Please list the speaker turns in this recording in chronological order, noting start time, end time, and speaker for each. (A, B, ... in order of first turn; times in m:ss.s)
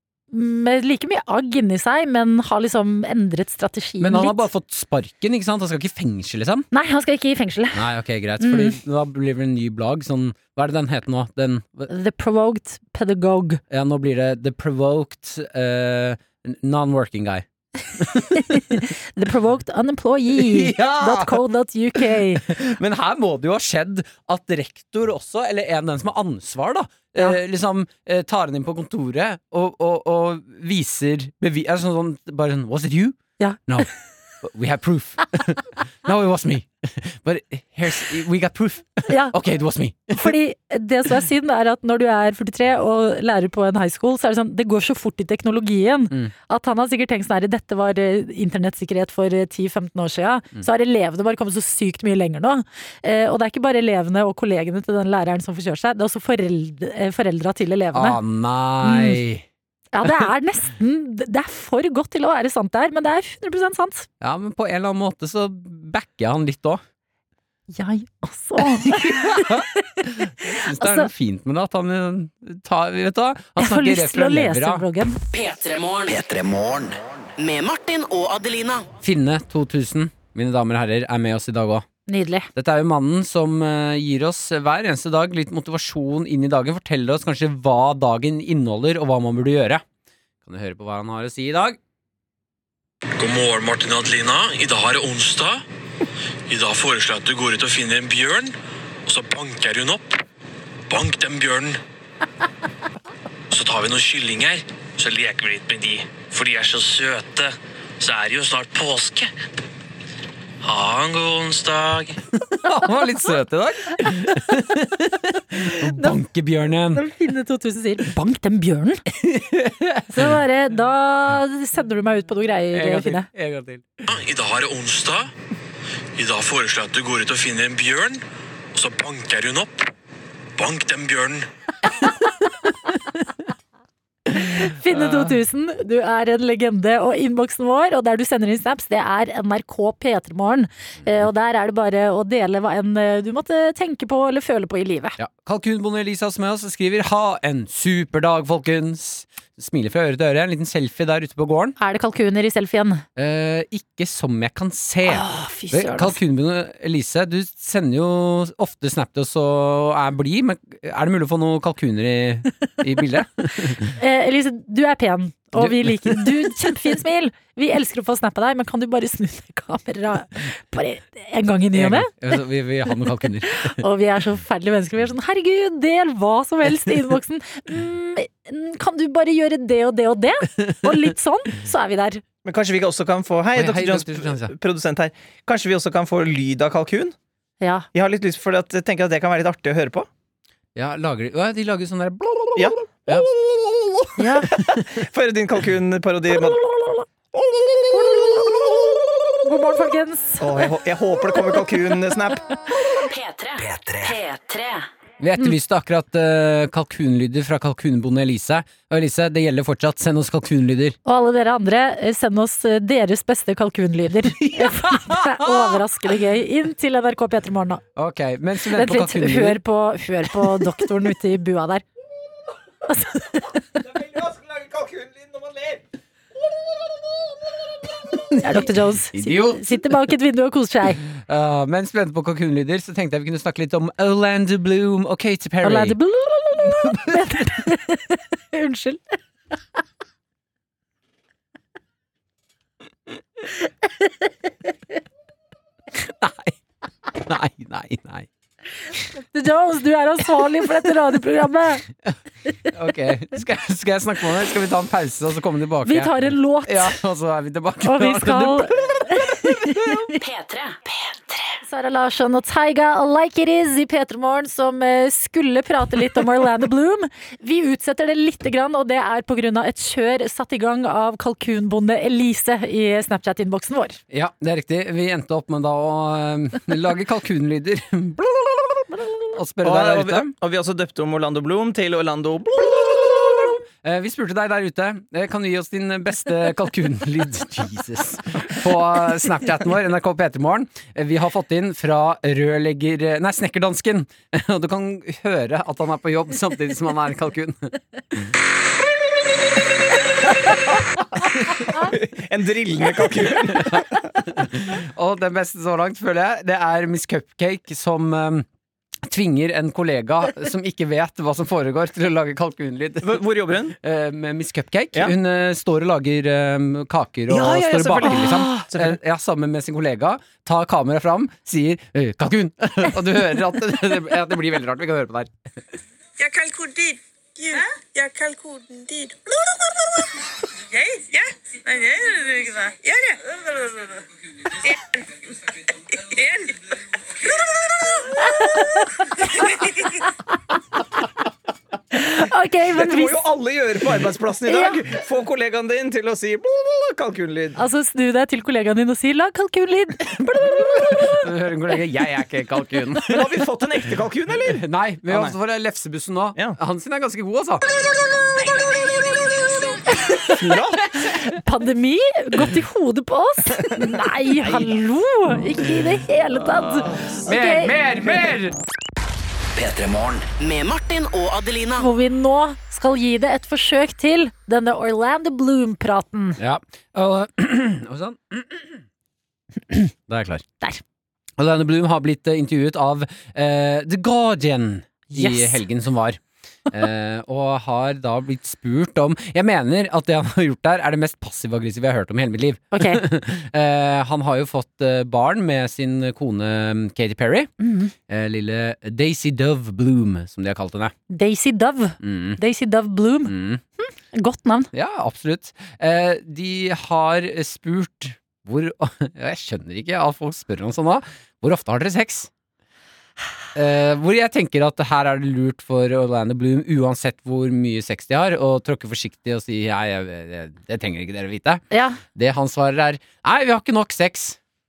0:00.3-0:04.4 A
0:04.0-0:06.7 B
0:06.7-0:07.8 A
0:07.7-0:11.9 B
0:08.4-0:08.8 A
0:11.9-0:13.6 A
0:13.7-0:18.8 B
0:18.1-0:22.5 A
0:20.3-0:21.4 B
0:21.9-0:33.9 B
0:33.4-0:33.9 A
0:34.4-0:40.4 B
0:39.1-0:39.3 A
0:40.1-0:58.2 A
0:57.9-0:59.4 B
0:58.8-0:59.2 A
0:59.9-1:04.1 A
1:04.2-1:06.8 B
1:07.7-1:09.8 A
1:08.8-1:14.8 B
1:10.4-1:11.1 A
1:13.6-1:15.2 A
1:15.3-1:16.2 C
1:16.1-1:17.0 D
1:17.4-1:18.9 C
1:19.0-1:21.8 B
1:22.1-1:22.5 A
1:22.5-1:29.8 B
1:30.4-1:31.8 B
1:33.2-1:35.6 E
1:36.5-1:38.5 E
1:39.0-1:40.2 E
1:40.9-1:41.8 E
1:43.5-1:49.3 E
1:50.6-1:52.2 E
1:52.4-1:57.1 B
1:55.7-1:56.1 A
1:56.9-1:59.0 A
1:59.2-2:00.4 B
2:00.1-2:03.3 A
2:02.7-2:04.0 B
2:04.1-2:05.3 E
2:06.2-2:08.2 E
2:08.7-2:09.8 E
2:10.6-2:11.5 E
2:14.4-2:25.2 A
2:14.9-2:15.2 B
2:25.2-2:31.8 B
2:31.8-2:33.0 A
2:33.2-2:44.0 B
2:35.0-2:36.2 A
2:43.8-2:52.1 A
2:45.5-2:46.7 B
2:51.7-2:53.8 B
2:53.5-3:02.2 A
3:00.6-3:01.1 B
3:02.4-3:07.1 F
3:03.5-3:04.5 B
3:07.6-3:07.9 A
3:07.9-3:10.1 F
3:10.7-3:13.3 B
3:12.6-3:13.2 F
3:14.2-3:14.5 A
3:15.0-3:16.6 F
3:16.8-3:17.0 A
3:17.4-3:18.5 F
3:17.9-3:18.4 A
3:19.4-3:20.5 A
3:20.4-3:22.4 F
3:22.9-3:24.8 C
3:23.6-3:24.2 D
3:25.2-3:31.0 B
3:31.0-3:37.8 A
3:34.2-3:35.8 B
3:38.0-3:39.6 B
3:38.7-3:41.8 A
3:40.4-3:40.8 B
3:42.9-3:43.5 A
3:44.0-3:45.8 F
3:48.1-3:49.9 B
3:48.4-3:51.0 A
3:51.0-3:56.0 B
3:55.6-3:59.2 A
3:56.7-3:57.5 B
4:06.0-4:06.6 B
4:07.1-4:08.3 B
4:09.2-4:11.8 A
4:12.7-4:20.0 B
4:15.8-4:17.0 A
4:17.8-4:20.1 A
4:20.2-4:21.6 C
4:21.6-4:34.0 A
4:34.1-4:40.3 B
4:39.6-4:43.5 F
4:43.1-4:58.3 B
5:01.5-5:04.1 F
5:03.5-5:08.5 B
5:09.0-5:25.3 B
5:13.0-5:13.8 F
5:17.3-5:19.0 F
5:18.2-5:18.6 A
5:26.2-5:26.9 G
5:28.0-5:29.1 G
5:31.7-5:33.9 G
5:38.2-5:39.6 A
5:41.9-5:43.2 A
5:42.7-5:47.6 F
5:44.5-5:44.8 A
5:47.6-5:51.2 A
5:50.4-5:53.4 B
5:53.0-5:55.3 F
5:54.5-5:57.7 B
6:00.0-6:00.4 A
6:00.3-6:01.1 B
6:00.3-6:00.9 F
6:01.2-6:07.7 A
6:04.4-6:04.8 B
6:06.7-6:08.5 B
6:09.5-6:10.3 D
6:10.4-6:11.9 C
6:11.8-6:16.4 A
6:16.4-6:18.8 B
6:20.1-6:20.4 B
6:21.4-6:37.5 B
6:25.1-6:25.6 A
6:32.7-6:33.0 A
6:37.6-6:37.9 A
6:38.1-6:40.9 B
6:41.1-6:44.7 A
6:42.0-6:42.4 B
6:43.2-6:43.6 B
6:44.7-6:52.3 B
6:53.5-7:04.4 B
7:01.7-7:02.0 A